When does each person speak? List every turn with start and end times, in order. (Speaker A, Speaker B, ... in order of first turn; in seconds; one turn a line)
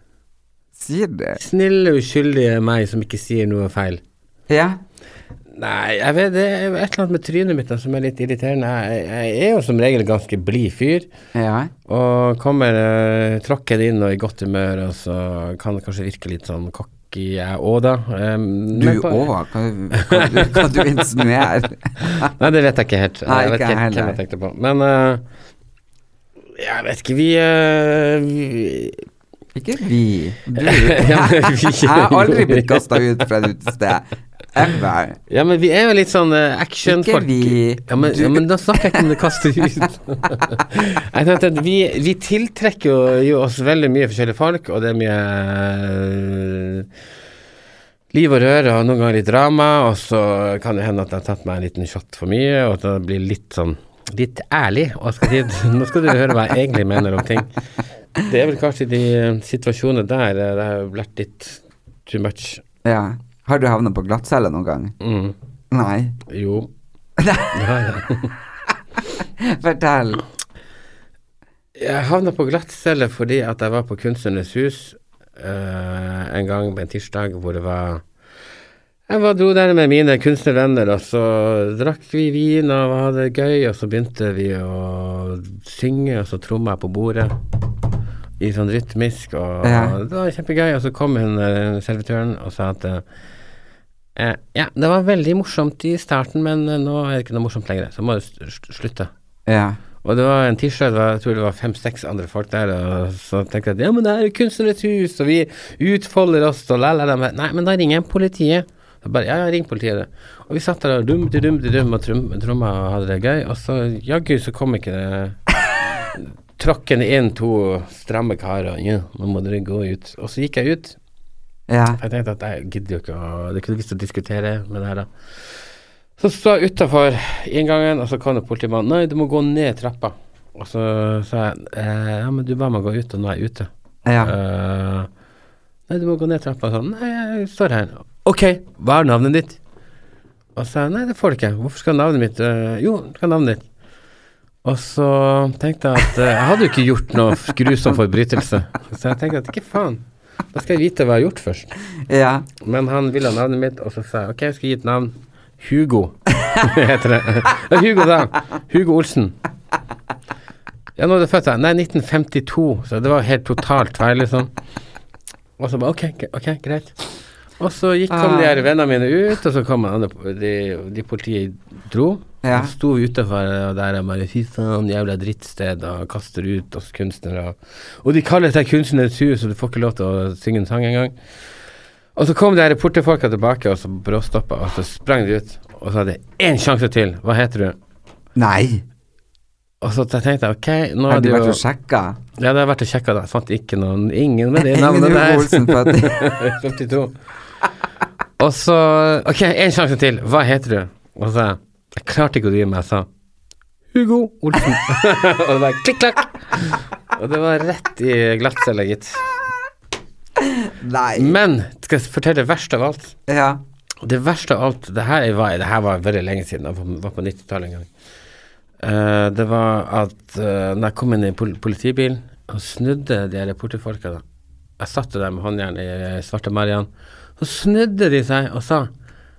Speaker A: 0.8-1.4
Speaker B: 1.4-4.0
Speaker A: 4.5-4.8
Speaker B: 5.5-11.1
Speaker A: 11.3-11.7
Speaker B: 11.9-19.3
Speaker A: 18.8-22.3
Speaker B: 20.0-21.0
Speaker B: 22.0-25.2
Speaker A: 23.3-24.2
Speaker B: 26.6-29.1
Speaker A: 29.6-35.2
Speaker B: 30.6-32.8
Speaker B: 35.3-46.9
Speaker A: 36.9-39.1
Speaker B: 48.1-57.6
Speaker B: 58.2-62.6
Speaker A: 62.8-65.0
Speaker B: 65.0-65.3
Speaker A: 65.7-66.2
Speaker B: 66.3-66.7
Speaker A: 67.2-67.5
Speaker B: 67.5-68.3
Speaker A: 69.2-70.2
Speaker B: 71.8-78.0
Speaker B: 79.1-87.4
Speaker B: 88.4-93.0
Speaker A: 89.6-90.0
Speaker B: 94.2-99.1
Speaker A: 99.5-99.8
Speaker B: 100.0-115.4
Speaker B: 116.2-121.0
Speaker A: 121.7-122.0
Speaker B: 122.0-125.6
Speaker B: 126.2-133.7
Speaker A: 134.1-134.3
Speaker B: 134.2-135.1
Speaker B: 135.9-139.6
Speaker B: 140.6-143.6
Speaker B: 144.6-151.8
Speaker A: 152.1-152.5
Speaker B: 152.6-159.4
Speaker B: 161.0-164.5
Speaker B: 165.6-167.0
Speaker B: 167.6-181.2
Speaker A: 168.1-168.6
Speaker A: 172.4-172.7
Speaker B: 182.2-187.8
Speaker A: 188.4-188.8
Speaker B: 189.8-191.6
Speaker A: 191.1-192.2
Speaker B: 192.4-197.2
Speaker A: 194.6-196.3
Speaker B: 198.4-203.1
Speaker B: 203.9-209.4
Speaker A: 210.4-211.4
Speaker B: 211.2-213.2
Speaker A: 213.3-213.6
Speaker B: 214.0-217.9
Speaker B: 218.8-224.2
Speaker B: 224.8-228.9